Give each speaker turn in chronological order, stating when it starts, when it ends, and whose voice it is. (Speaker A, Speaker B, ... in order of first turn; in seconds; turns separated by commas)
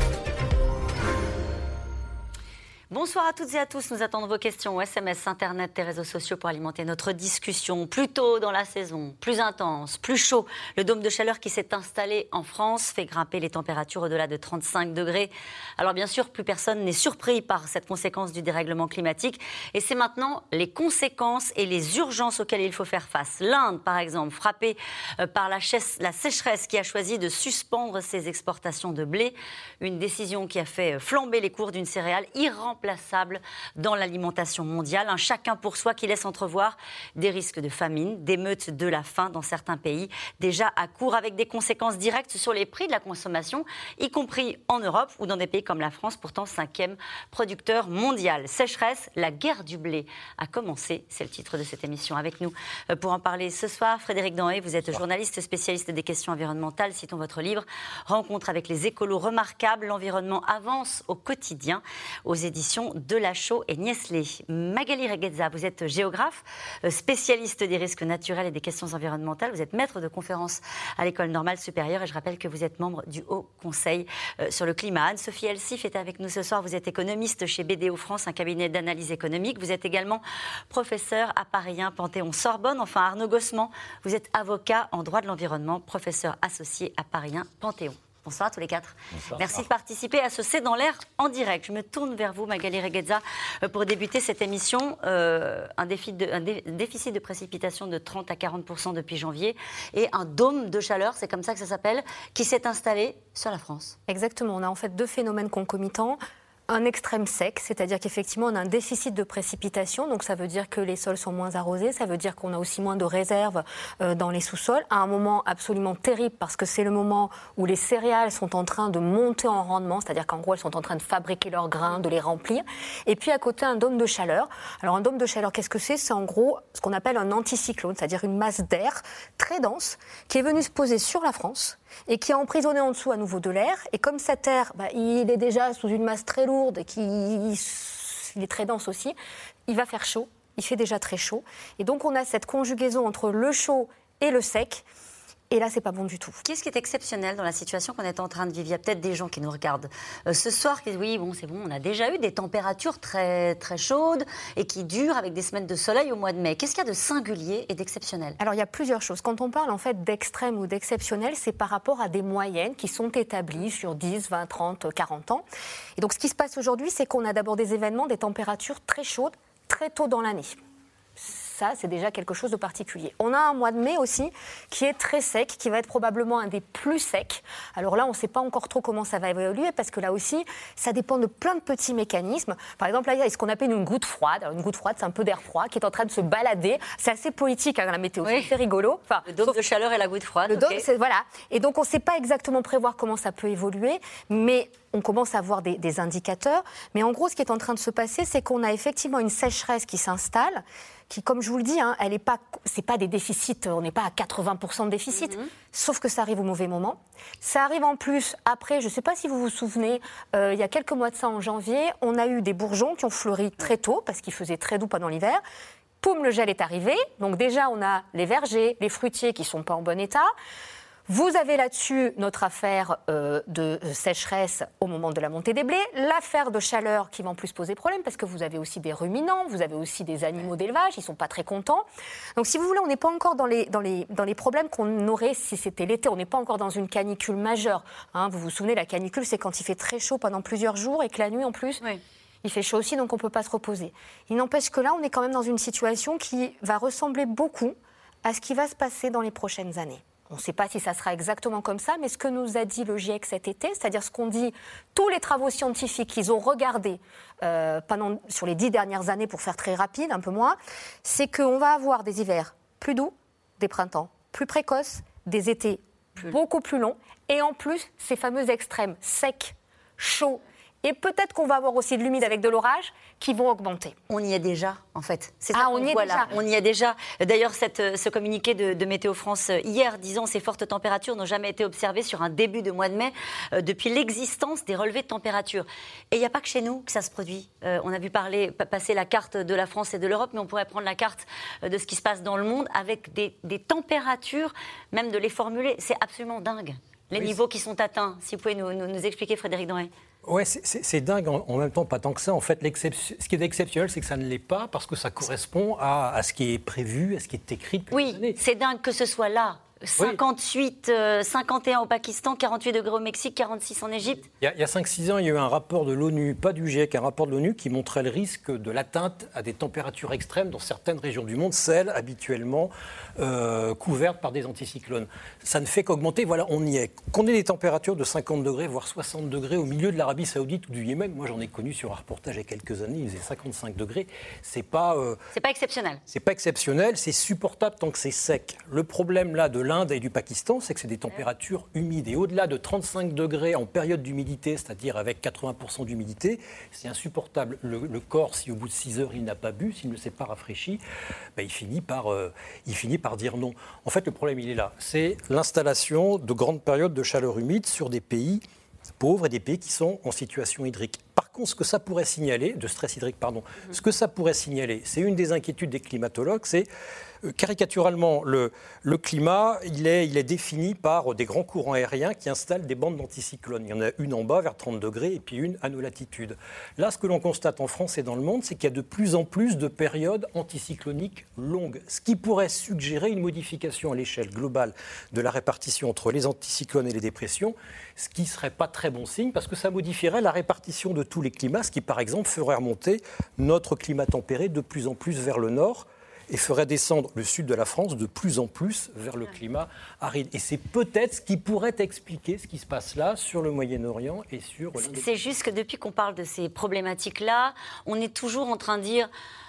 Speaker A: 2.9-104.0, Speaker B: 89.2-89.7, Speaker C: 104.1-139.2, Speaker C: 139.7-144.8, Speaker C: 145.5-146.4, Speaker A: 146.4-158.4, Speaker C: 158.4-165.5, Speaker C: 166.0-170.6, Speaker C: 171.2-189.6, Speaker A: 188.2-188.5, Speaker A: 189.3-190.8, Speaker C: 190.5-215.4, Speaker A: 205.1-205.5, Speaker C: 216.0-220.3, Speaker C: 221.1-241.8, Speaker C: 242.4-274.0, Speaker A: 274.1-299.9, Speaker C: 275.5-276.3, Speaker B: 300.2-308.4, Speaker A: 307.9-314.2, Speaker B: 314.4-335.2, Speaker A: 335.3-336.0, Speaker B: 336.1-350.8, Speaker B: 351.4-358.4, Speaker B: 359.0-366.7, Speaker B: 367.2-405.2, Speaker A: 404.9-409.1